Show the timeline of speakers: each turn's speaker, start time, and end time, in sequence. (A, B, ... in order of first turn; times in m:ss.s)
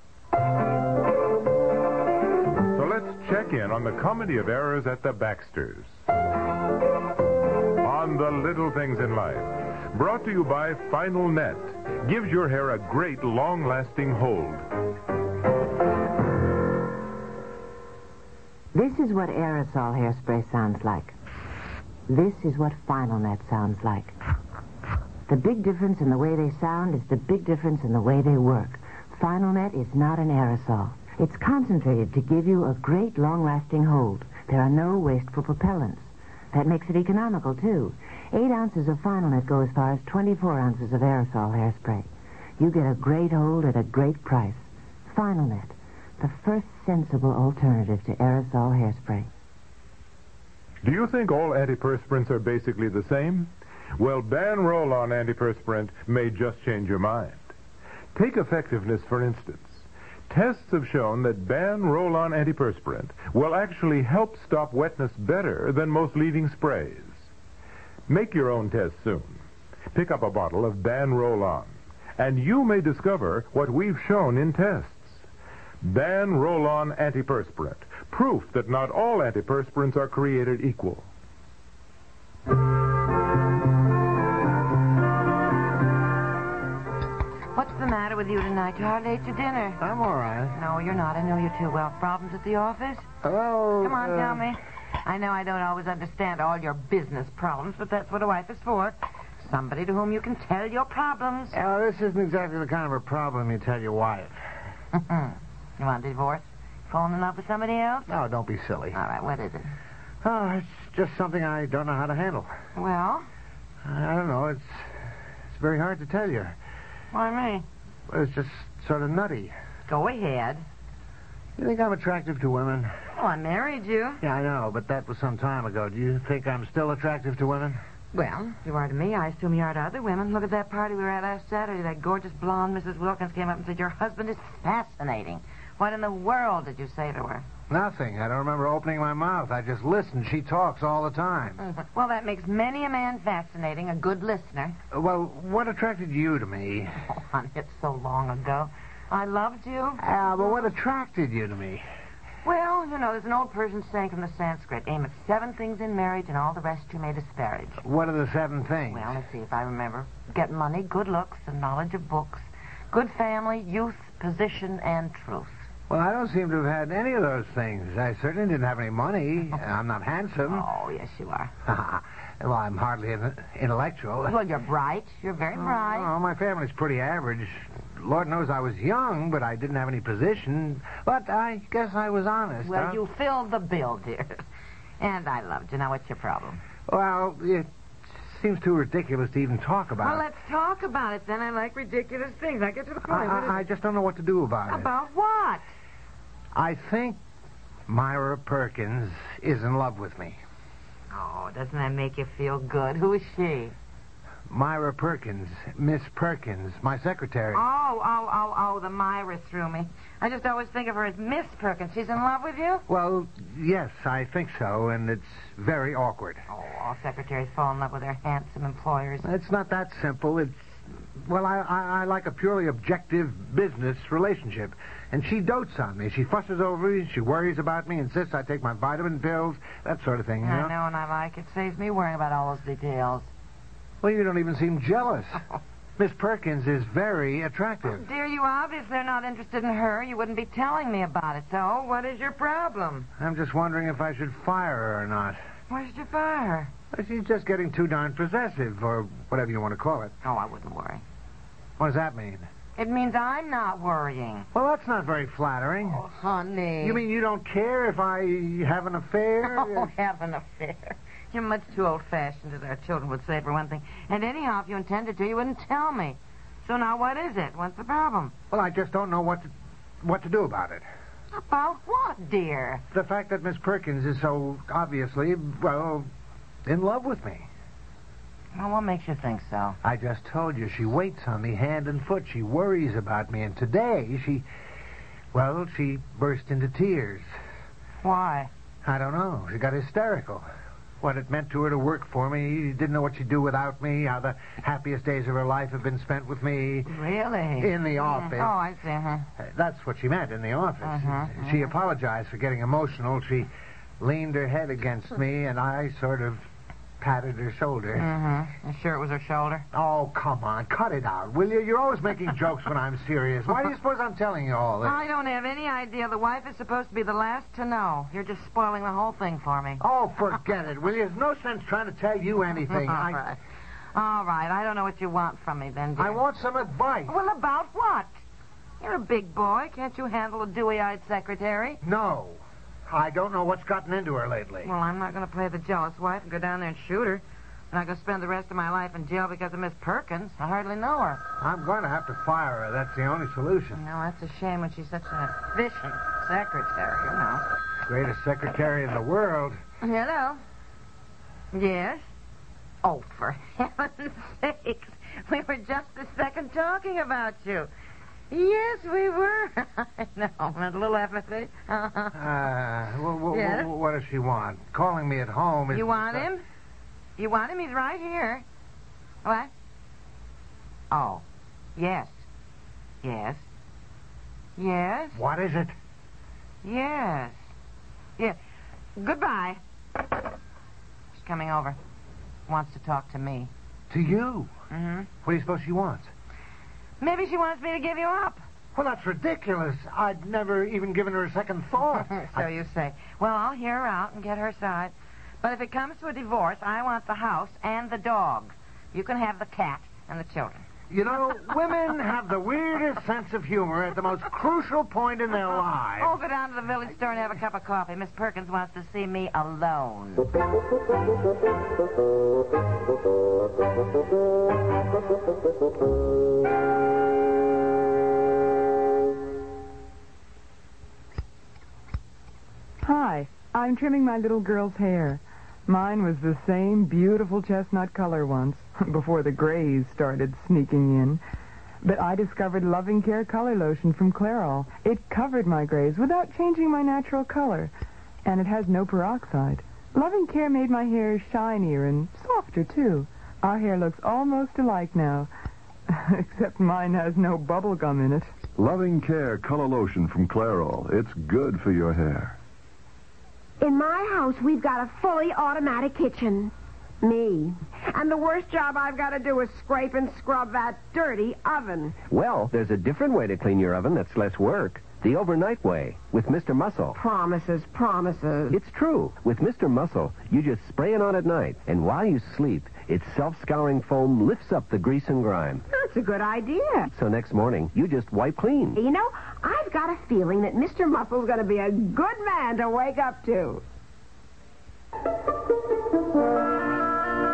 0:02.7-0:05.9 A
0:07.8-0:14.6 A
0:18.7-0:21.1 B
0:22.1-0:24.1 B
0:25.3-0:42.1 B
0:42.6-0:49.3 B
0:50.8-0:57.4 A
0:58.1-1:07.2 A
1:08.1-1:09.4 A
1:09.9-1:15.2 A
1:15.8-1:21.1 A
1:27.5-1:29.8 B
1:29.8-1:30.6 C
1:30.5-1:33.0 B
1:33.2-1:34.5 C
1:33.8-1:41.6 B
1:41.5-1:44.4 C
1:44.9-1:48.1 B
1:48.1-1:49.0 C
1:48.9-1:49.7 B
1:50.2-1:52.5 C
1:52.7-1:53.3 B
1:53.8-1:54.8 C
1:55.5-1:56.6 C
1:57.1-1:57.6 B
1:58.1-1:59.5 C
1:59.9-2:00.6 B
2:01.6-2:02.9 C
2:03.1-2:04.2 B
2:04.2-2:07.8 C
2:08.1-2:17.4 B
2:17.7-2:21.6 C
2:21.6-2:24.8 B
2:24.9-2:26.9 C
2:27.1-2:30.0 B
2:30.0-2:31.8 C
2:32.4-2:37.8 B
2:37.8-2:39.2 C
2:38.9-2:45.6 B
2:45.9-2:50.7 C
2:50.5-2:51.5 B
2:51.6-2:54.4 C
2:54.2-2:56.1 B
2:55.5-3:03.0 C
3:02.6-3:04.4 B
3:05.0-3:06.6 B
3:06.9-3:10.2 C
3:10.0-3:13.7 B
3:13.0-3:14.9 C
3:14.7-3:15.7 B
3:16.5-3:17.2 C
3:17.9-3:20.4 C
3:21.1-3:23.7 B
3:24.5-3:27.6 C
3:27.5-3:32.8 B
3:32.9-3:36.4 C
3:36.5-3:39.3 B
3:39.2-3:50.7 C
3:50.4-3:53.3 B
3:54.0-3:55.4 C
3:56.0-3:58.0 C
3:57.8-4:03.1 B
4:03.2-4:05.4 C
4:05.7-4:06.7 B
4:06.9-4:10.1 C
4:10.2-4:11.0 B
4:11.8-4:12.4 C
4:12.8-4:14.5 B
4:14.5-4:16.0 C
4:15.8-4:17.0 B
4:16.8-4:19.9 C
4:19.4-4:28.3 B
4:28.5-4:29.5 C
4:30.0-4:30.8 C
4:31.3-4:32.8 B
4:32.9-4:36.1 C
4:36.6-4:37.5 C
4:38.5-4:39.8 B
4:39.8-4:44.4 C
4:45.3-4:47.3 C
4:48.0-4:48.5 B
4:48.8-4:50.4 C
4:51.0-4:56.9 C
4:56.8-4:59.3 B
4:57.6-4:58.6 C
4:59.4-5:06.5 C
5:00.8-5:01.7 B
5:07.0-5:08.1 C
5:07.9-5:09.6 B
5:09.7-5:15.0 C
5:14.8-5:19.8 B
5:19.8-5:23.3 C
5:22.7-5:23.4 B
5:23.9-5:26.2 B
5:26.0-5:27.2 C
5:27.0-5:28.1 B
5:28.8-5:31.8 B
5:31.8-5:34.7 C
5:34.6-5:41.2 B
5:41.4-5:43.8 C
5:43.7-5:47.4 B
5:47.8-5:49.6 C
5:49.8-5:50.4 B
5:51.5-5:52.1 B
5:52.8-5:57.7 B
5:58.3-6:02.4 B
6:02.1-6:06.3 C
6:03.3-6:03.7 B
6:05.7-6:06.4 B
6:07.2-6:08.4 B
6:09.2-6:09.5 B
6:10.9-6:11.2 B
6:11.8-6:12.2 B
6:13.0-6:13.4 B
6:14.6-6:15.2 B
6:15.1-6:15.7 C
6:16.6-6:17.4 B
6:19.0-6:19.6 B
6:21.1-6:21.8 B
6:22.5-6:23.5 B
6:23.9-6:24.5 C
6:24.7-6:25.1 B
6:25.2-6:26.1 C
6:27.0-6:28.4 B
6:28.7-6:32.5 C
6:31.9-6:40.6 B
6:40.9-6:46.1 C
6:46.0-6:50.3 B
7:02.8-7:11.2 D
7:11.8-7:17.7 D
7:18.2-7:25.3 D
7:25.9-7:28.3 D
7:28.6-7:32.3 E
7:33.6-7:42.0 F
7:42.1-7:47.0 G
7:47.0-7:48.6 F
7:48.5-7:55.6 G
7:55.7-7:56.9 F
7:56.9-7:58.8 G
7:58.8-8:03.6 F